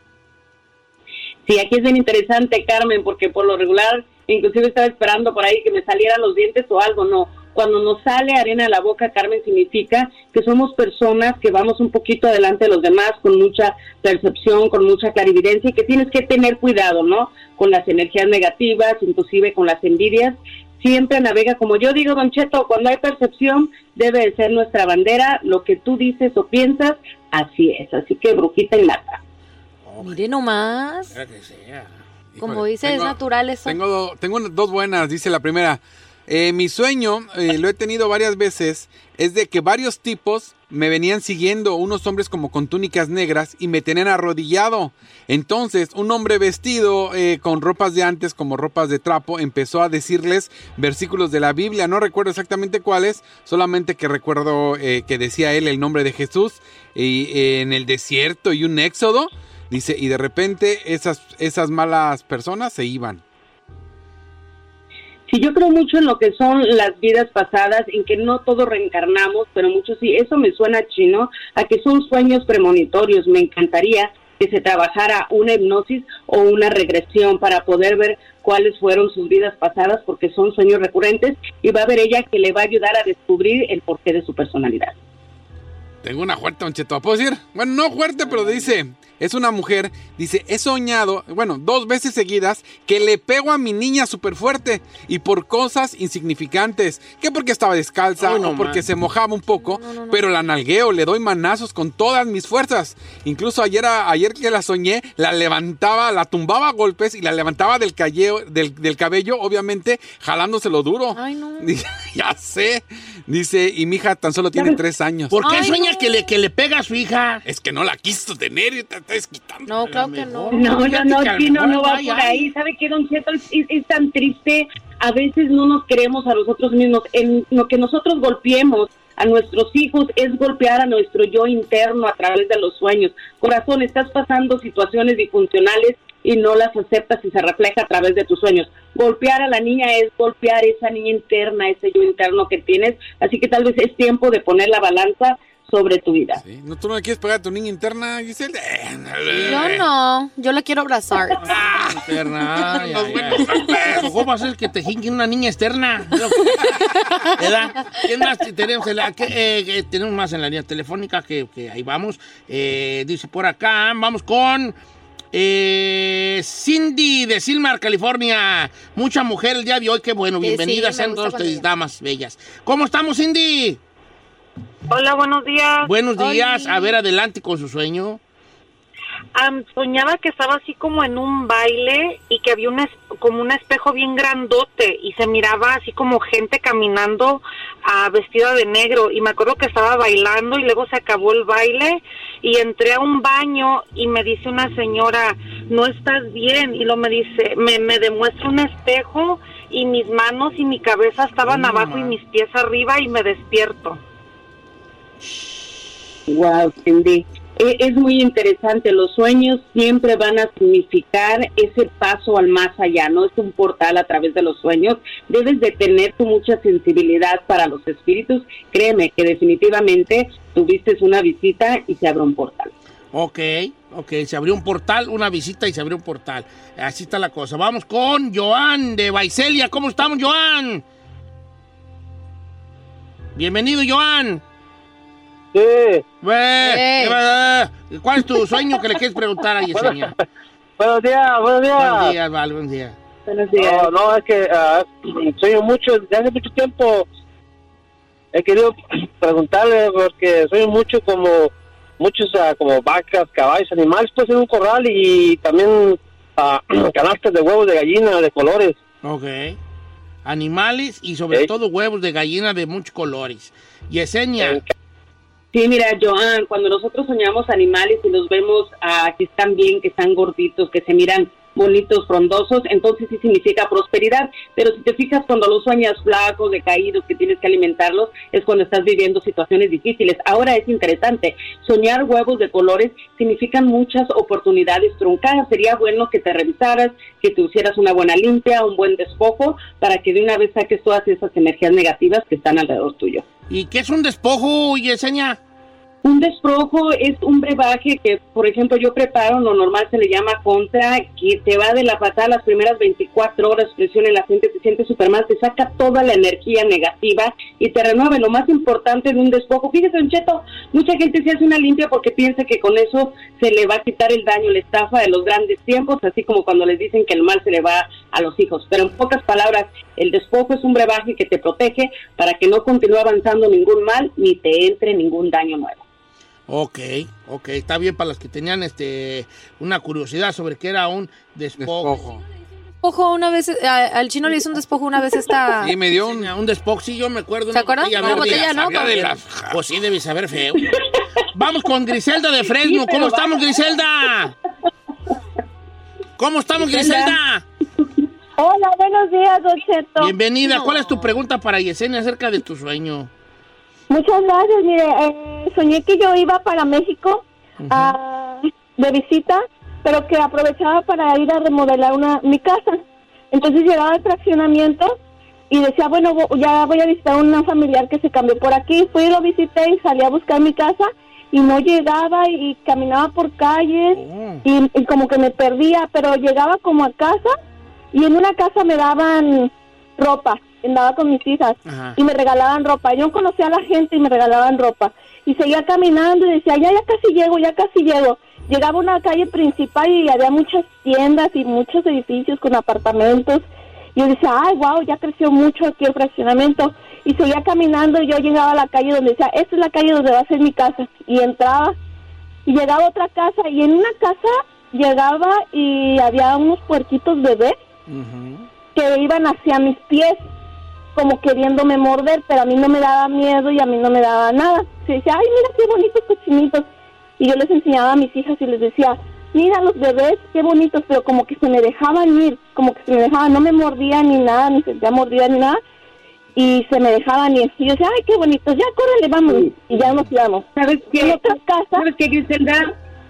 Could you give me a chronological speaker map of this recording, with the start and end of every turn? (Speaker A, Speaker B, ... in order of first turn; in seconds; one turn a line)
Speaker A: 1.4-29.2
Speaker B: 29.8-30.2
Speaker C: 30.0-31.1
Speaker B: 31.1-31.9
Speaker D: 32.3-63.2
Speaker C: 32.4-33.8
Speaker A: 65.3-85.0
Speaker D: 86.0-115.3
Speaker B: 88.2-88.7
Speaker B: 98.2-98.8
Speaker C: 99.5-100.2
Speaker C: 111.1-111.7
Speaker B: 115.3-117.4
Speaker C: 115.4-116.2
Speaker D: 117.5-119.7
Speaker C: 119.7-120.6
Speaker B: 119.8-122.4
Speaker A: 120.5-146.4
Speaker D: 146.4-149.8
Speaker B: 149.2-149.8
Speaker C: 149.4-151.5
Speaker B: 151.4-164.8
Speaker D: 151.5-152.0
Speaker D: 152.7-154.1
Speaker B: 165.3-173.8
Speaker C: 170.4-171.7
Speaker E: 174.9-175.9
Speaker B: 175.9-178.2
Speaker C: 176.2-176.9
Speaker E: 179.3-204.0
Speaker B: 201.4-202.2
Speaker A: 206.3-222.7
Speaker B: 223.1-230.8
Speaker B: 233.3-234.4
Speaker F: 235.5-236.0
Speaker B: 236.2-240.1
Speaker C: 236.6-237.2
Speaker F: 239.7-240.1
Speaker F: 240.8-242.1
Speaker B: 241.8-242.9
Speaker A: 243.2-243.9
Speaker F: 243.5-247.1
Speaker F: 248.3-258.8
Speaker B: 259.0-259.6
Speaker B: 260.2-264.6
Speaker F: 264.4-264.7
Speaker A: 265.5-293.2
Speaker B: 293.5-295.4
Speaker A: 296.0-325.8
Speaker B: 326.5-331.9
Speaker D: 331.6-332.2
Speaker C: 332.8-335.7
Speaker D: 335.6-336.3
Speaker B: 335.9-340.8
Speaker C: 337.5-339.0
Speaker D: 338.0-339.6
Speaker B: 341.3-344.3
Speaker A: 342.4-343.6
Speaker B: 346.2-347.4
Speaker A: 346.6-347.2
Speaker G: 348.4-350.1
Speaker B: 350.0-353.1
Speaker C: 350.4-351.0
Speaker G: 353.9-365.0
Speaker B: 357.6-357.9
Speaker G: 365.5-377.3
Speaker B: 373.9-374.4
Speaker G: 377.9-401.8
Speaker B: 381.6-382.0
Speaker G: 402.4-407.6
Speaker B: 407.9-408.5
Speaker G: 408.7-410.2
Speaker G: 410.9-416.7
Speaker G: 417.2-425.6
Speaker G: 426.4-431.9
Speaker A: 429.3-429.6
Speaker A: 430.5-432.7